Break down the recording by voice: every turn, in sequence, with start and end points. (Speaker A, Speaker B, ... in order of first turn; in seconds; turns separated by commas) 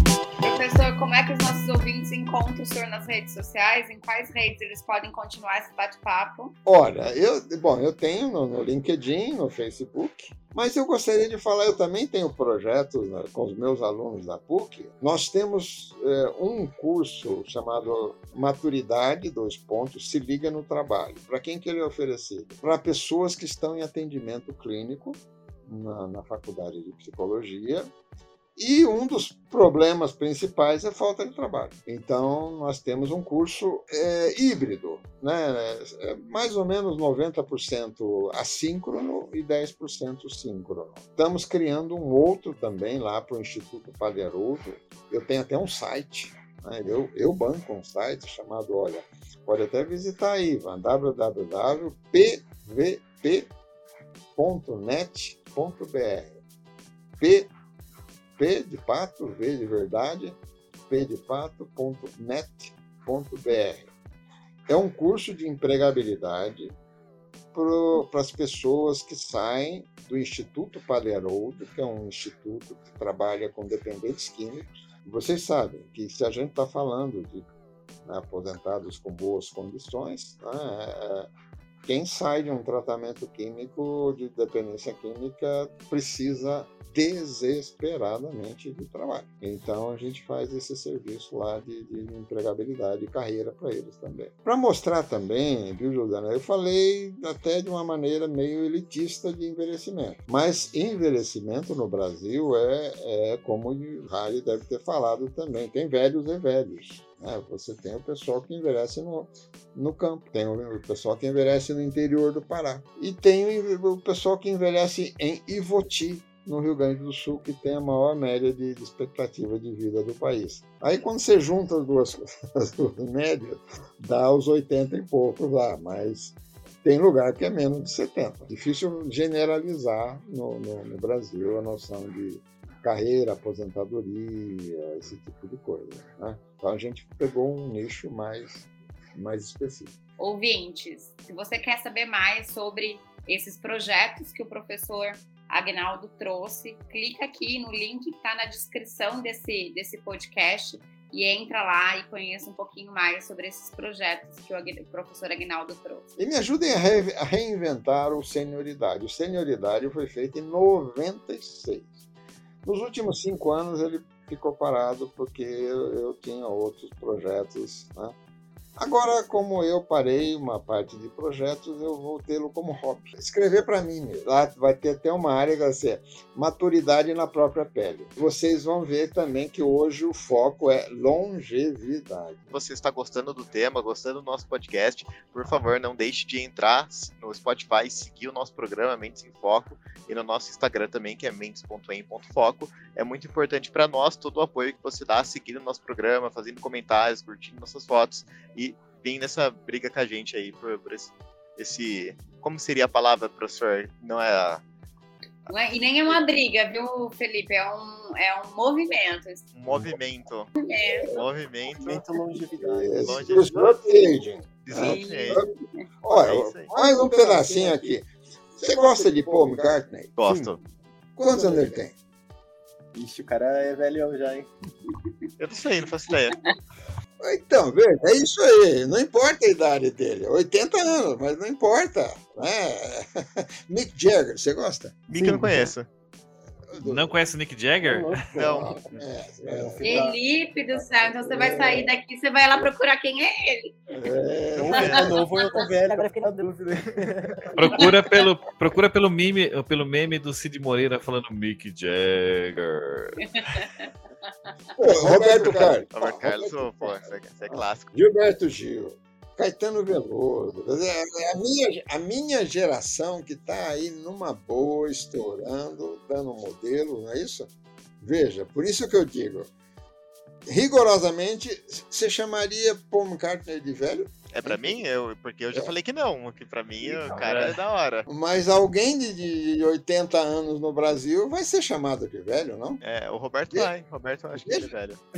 Speaker A: 0.4-6.5, Speaker B: 6.6-27.9, Speaker B: 28.6-53.5, Speaker B: 54.3-56.4, Speaker B: 57.2-57.5, Speaker B: 58.4-60.4, Speaker B: 60.9-63.9, Speaker B: 64.7-66.7, Speaker B: 67.5-77.5, Speaker B: 78.0-81.3, Speaker B: 81.8-140.0, Speaker A: 140.2-156.1, Speaker B: 156.2-162.0, Speaker B: 162.6-168.1, Speaker B: 168.8-182.5, Speaker C: 182.5-204.6, Speaker A: 205.5-209.5, Speaker C: 209.5-210.6, Speaker A: 210.6-211.1, Speaker C: 211.1-212.0, Speaker D: 211.7-213.8, Speaker B: 212.6-215.5, Speaker C: 212.9-213.4, Speaker C: 214.6-215.4, Speaker A: 214.7-215.4, Speaker B: 216.0-218.1, Speaker C: 216.1-216.7, Speaker D: 216.7-217.9, Speaker B: 218.6-220.2, Speaker D: 218.6-220.5, Speaker C: 220.2-220.6, Speaker B: 221.2-221.9, Speaker D: 221.2-221.8, Speaker D: 222.9-224.5, Speaker C: 225.4-226.4, Speaker B: 227.2-235.0, Speaker C: 235.1-235.9, Speaker D: 235.1-235.7, Speaker B: 236.7-237.2, Speaker E: 236.8-238.3, Speaker D: 237.8-240.2, Speaker B: 238.3-240.1, Speaker C: 238.3-238.8, Speaker A: 239.8-243.8, Speaker B: 240.7-241.9, Speaker B: 243.9-245.2, Speaker D: 244.5-247.9, Speaker A: 244.7-245.7, Speaker E: 247.5-252.9, Speaker A: 253.3-253.9, Speaker B: 254.8-269.5, Speaker C: 254.9-257.9, Speaker D: 255.1-255.8, Speaker B: 270.4-274.8, Speaker C: 274.3-278.1, Speaker B: 276.8-277.3, Speaker E: 277.1-277.6, Speaker B: 278.1-282.8, Speaker C: 282.8-285.0, Speaker B: 284.3-284.7